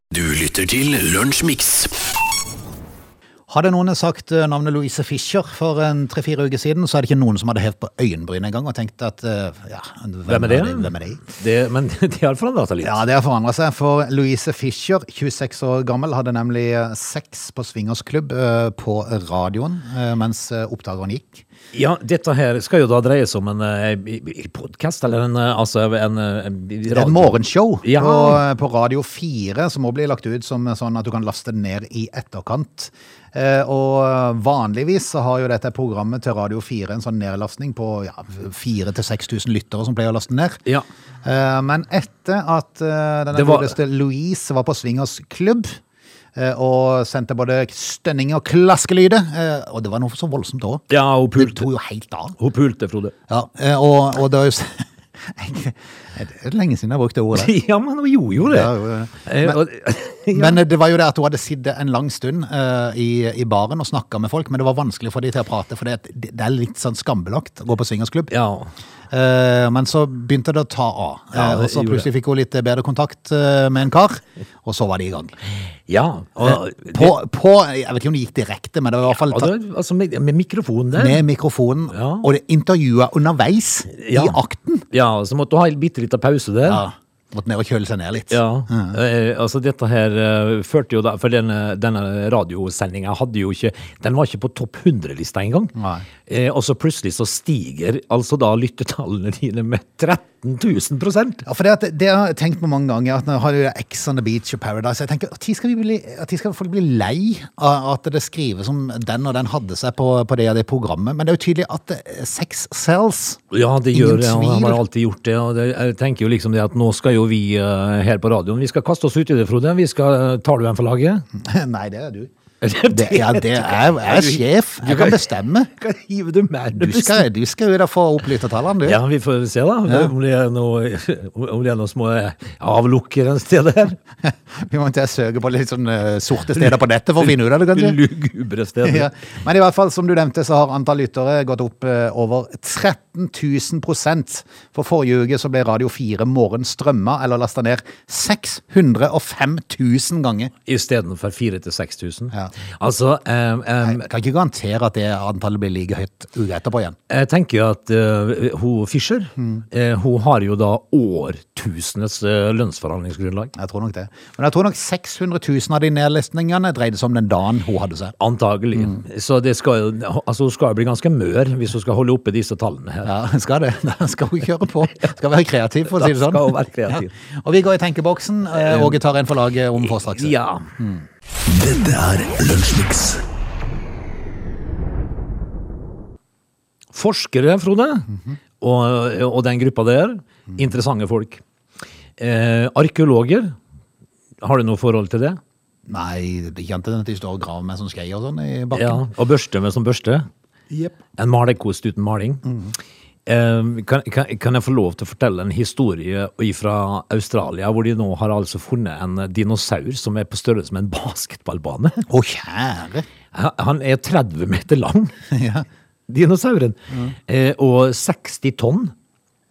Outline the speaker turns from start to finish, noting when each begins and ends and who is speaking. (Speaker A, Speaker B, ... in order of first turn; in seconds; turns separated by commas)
Speaker A: 0.1-1.9, Speaker B: 3.5-11.3, Speaker C: 10.3-13.0, Speaker B: 12.8-21.4, Speaker C: 21.7-28.4, Speaker B: 26.9-40.6, Speaker B: 41.2-45.8, Speaker C: 43.3-43.8, Speaker B: 46.4-52.4, Speaker C: 50.9-51.7, Speaker C: 52.4-53.1, Speaker B: 53.3-57.5, Speaker C: 57.3-58.7, Speaker B: 58.4-59.6, Speaker C: 59.3-60.6, Speaker B: 60.3-68.3, Speaker C: 68.3-68.7, Speaker B: 69.1-75.3, Speaker C: 71.3-72.1, Speaker C: 75.9-77.2, Speaker B: 76.4-79.5, Speaker C: 79.1-81.2, Speaker B: 81.0-84.9, Speaker C: 81.9-82.3, Speaker C: 84.0-84.4, Speaker C: 84.9-86.8, Speaker B: 86.7-89.0, Speaker C: 88.3-95.7, Speaker B: 95.8-96.1, Speaker C: 96.3-101.4, Speaker B: 101.5-113.4, Speaker C: 113.5-121.2, Speaker B: 113.9-114.8, Speaker B: 121.3-122.3, Speaker C: 122.6-127.3, Speaker B: 122.9-125.7, Speaker B: 126.7-129.0, Speaker C: 128.8-134.0, Speaker B: 134.2-138.0, Speaker C: 136.6-139.1, Speaker B: 138.8-150.5, Speaker C: 150.7-154.1, Speaker B: 153.8-157.0, Speaker C: 157.1-163.5, Speaker B: 163.6-168.2, Speaker C: 168.2-173.1, Speaker B: 173.0-181.1, Speaker C: 175.9-177.1, Speaker C: 178.5-179.0, Speaker C: 179.8-180.7, Speaker A: 181.5-183.2, Speaker C: 186.9-191.4, Speaker C: 192.2-193.6, Speaker C: 194.4-195.4, Speaker B: 195.9-199.0, Speaker C: 198.7-200.3, Speaker C: 201.2-202.4, Speaker B: 202.5-202.7, Speaker C: 203.3-212.1, Speaker B: 212.1-213.1, Speaker C: 213.3-215.1, Speaker B: 215.3-215.7, Speaker C: 216.1-218.9